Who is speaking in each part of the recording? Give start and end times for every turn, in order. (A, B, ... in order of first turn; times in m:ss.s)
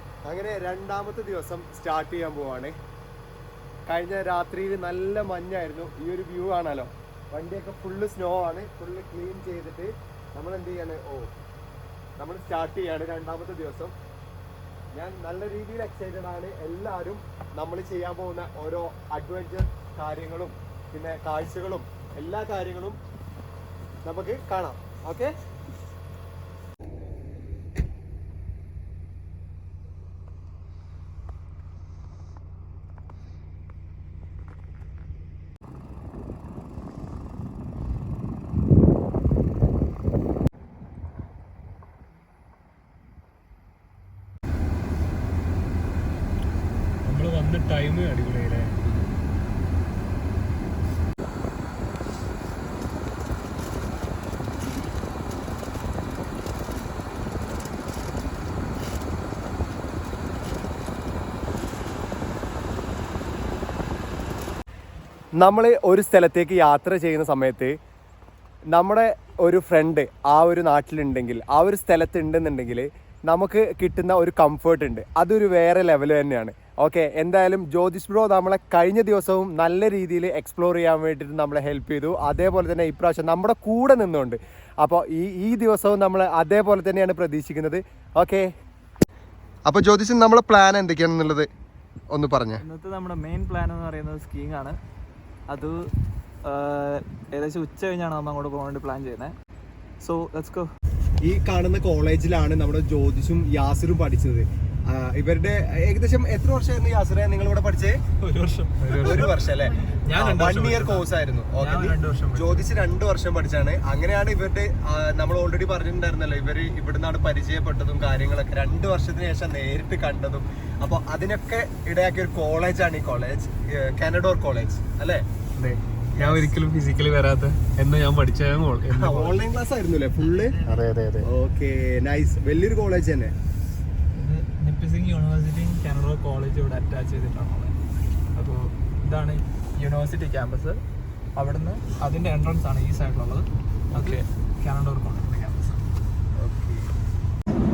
0:00.2-0:02.7 A
0:03.9-0:11.3 A
0:12.2-0:13.9 A
0:14.9-0:23.0 A
0:24.0-0:25.3 A
0:47.0-0:48.8 B
1:05.4-1:07.7 A
1:08.7-1:28.4 A
1:29.6-1:31.5 A
1:32.1-1:32.6 A
1:32.6-1:34.8 B
1:35.5-1:35.8 B
1:36.4-1:39.4 B
1:40.0-1:40.7 B
1:41.2-1:48.0 A
1:48.2-1:52.7 B
1:48.9-2:05.2 A
2:05.6-2:08.9 B
2:06.2-2:06.5 A
2:07.7-2:09.2 C
2:08.9-2:10.6 A
2:10.4-2:10.9 B
2:10.7-2:11.1 C
2:11.2-2:13.3 A
2:14.2-2:17.7 B
2:18.3-2:20.8 B
2:21.4-2:25.8 B
2:26.4-2:26.8 A